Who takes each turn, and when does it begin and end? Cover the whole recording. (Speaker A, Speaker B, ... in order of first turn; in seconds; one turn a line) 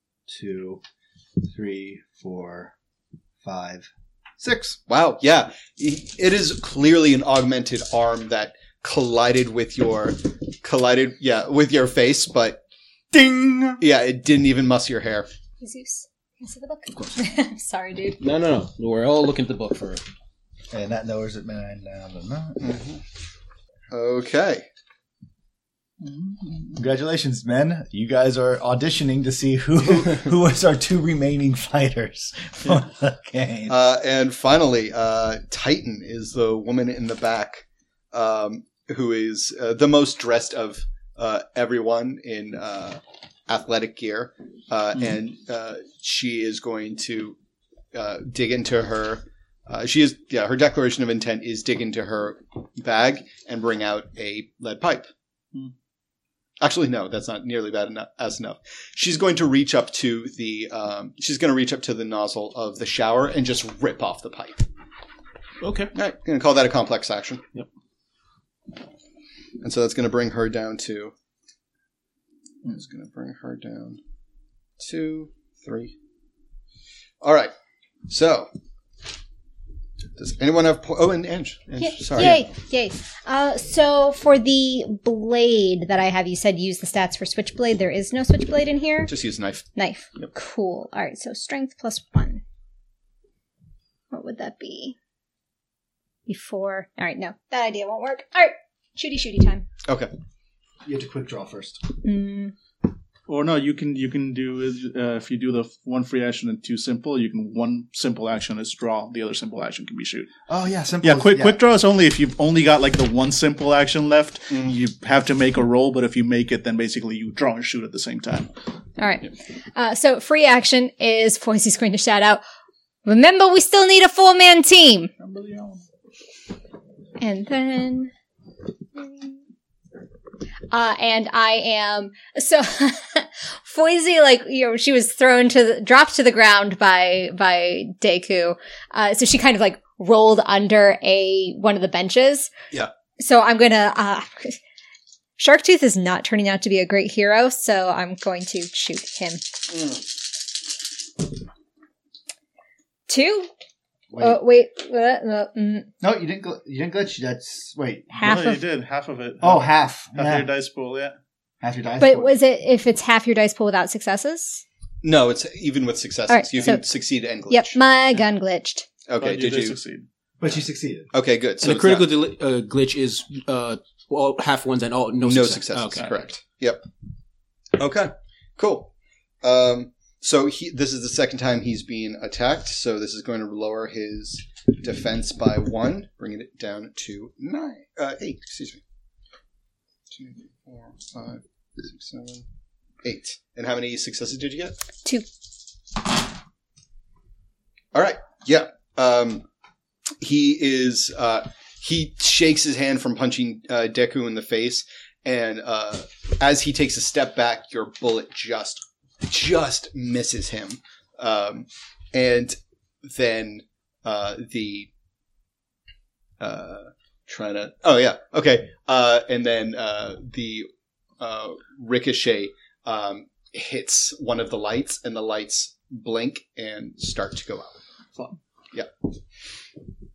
Speaker A: 0.3-0.8
Speaker A: 1.4-2.7
Speaker A: 3.4-4.8
Speaker B: 4.9-12.6
Speaker A: 13.1-13.8
Speaker B: 13.8-15.3
Speaker C: 15.6-18.2
Speaker D: 18.2-20.0
Speaker A: 20.7-22.7
Speaker B: 22.6-23.0
Speaker B: 23.9-24.7
Speaker E: 26.0-26.8
Speaker A: 26.8-33.8
Speaker B: 33.7-47.4
Speaker B: 47.9-55.1
Speaker B: 56.6-64.6
Speaker D: 65.6-65.9
Speaker B: 65.9-67.4
Speaker B: 69.6-71.1
Speaker B: 72.6-74.0
Speaker B: 74.8-75.9
Speaker B: 77.2-77.5
Speaker B: 78.1-78.5
Speaker B: 80.2-82.5
Speaker C: 81.8-89.1
Speaker B: 89.1-89.6
Speaker C: 89.7-92.4
Speaker C: 94.1-95.0
Speaker C: 96.3-99.7
Speaker B: 99.8-100.1
Speaker A: 100.8-101.8
Speaker C: 102.0-102.5
Speaker E: 103.3-110.3
Speaker A: 110.5-111.6
Speaker E: 111.0-118.5
Speaker C: 119.0-122.4
Speaker C: 123.0-125.1
Speaker E: 125.2-125.8
Speaker C: 127.2-128.1
Speaker C: 129.0-129.3
Speaker C: 130.7-142.5
Speaker C: 143.2-144.6
Speaker C: 145.4-149.4
Speaker C: 153.1-153.5
Speaker A: 154.1-154.4
Speaker C: 154.2-155.9
Speaker A: 156.0-158.4
Speaker C: 158.2-158.6
Speaker E: 158.2-161.2
Speaker A: 159.4-160.5
Speaker A: 161.6-162.3
Speaker C: 162.0-164.6
Speaker B: 165.0-167.8
Speaker C: 166.3-166.8
Speaker C: 167.5-168.8
Speaker B: 169.1-169.8
Speaker E: 169.2-170.1
Speaker A: 170.4-171.1
Speaker B: 171.1-172.1
Speaker D: 171.6-176.1
Speaker B: 175.2-176.8
Speaker B: 177.8-188.8
Speaker B: 190.1-192.4
Speaker B: 193.0-194.8
Speaker B: 197.9-199.4
Speaker B: 200.2-214.9
Speaker B: 216.4-220.7
Speaker B: 221.2-227.7